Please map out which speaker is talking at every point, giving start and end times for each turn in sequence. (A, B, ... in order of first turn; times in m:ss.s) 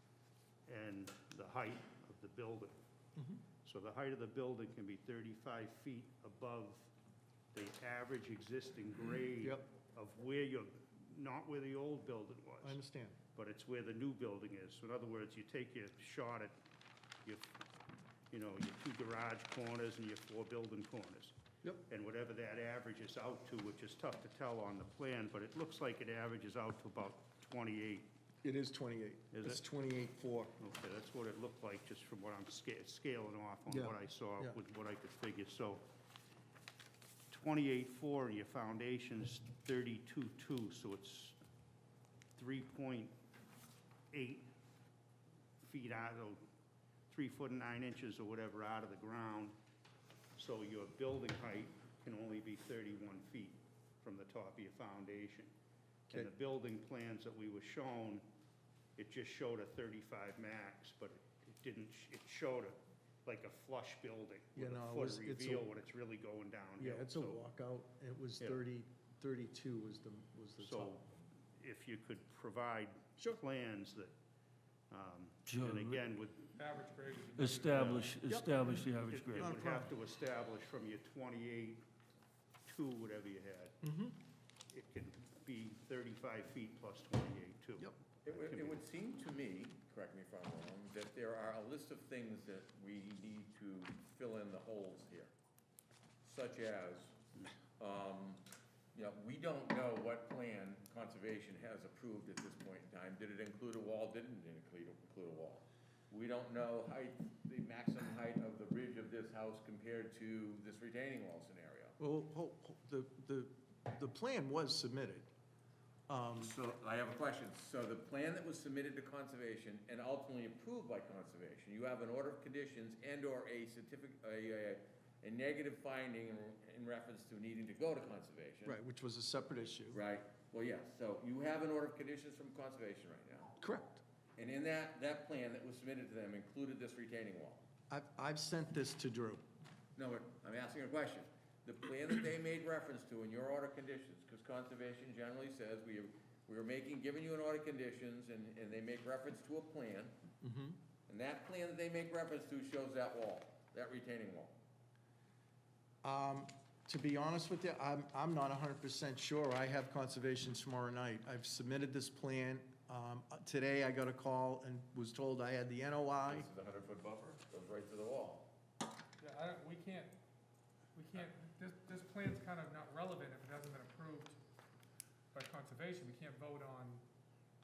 0:00.6-0:02.7 A
0:03.6-0:06.9 A
0:07.5-0:12.8 A
0:09.4-0:09.7 B
0:12.6-0:13.2 B
0:13.3-0:16.5 A
0:17.2-0:17.6 A
0:18.3-0:21.4 A
0:21.9-0:28.1 A
0:28.4-0:30.5 B
0:29.3-0:29.6 A
0:30.6-0:35.8 A
0:33.7-0:34.6 B
0:37.3-0:41.4 A
0:42.3-0:43.1 A
0:44.1-0:44.5 A
0:45.6-0:46.4 A
0:47.1-0:49.5 A
0:50.4-0:55.5 A
0:56.1-0:58.2 A
0:59.0-1:07.4 A
1:04.6-1:05.7 B
1:06.8-1:10.9 B
1:10.6-1:14.1 A
1:14.9-1:16.6 A
1:15.5-1:16.0 C
1:16.5-1:17.9 D
1:17.4-1:19.6 C
1:17.7-1:18.2 A
1:18.3-1:18.6 B
1:19.1-1:21.8 A
1:19.4-1:19.9 B
1:22.6-1:23.8 A
1:23.8-1:24.1 B
1:24.7-1:28.8 A
1:28.2-1:35.3 E
1:36.2-1:37.1 E
1:37.8-1:38.4 E
1:38.9-1:52.0 E
1:52.0-1:55.3 B
1:56.1-1:56.5 B
1:56.4-2:08.8 E
2:08.6-2:10.0 B
2:09.9-2:13.6 E
2:13.6-2:14.0 B
2:14.4-2:17.6 E
2:17.9-2:19.4 B
2:20.0-2:30.2 E
2:30.4-2:30.8 B
2:31.1-2:34.5 E
2:36.0-2:46.5 B
2:46.2-2:48.5 E
2:49.2-2:50.1 D
2:50.9-2:54.4 D
2:55.3-2:57.0 D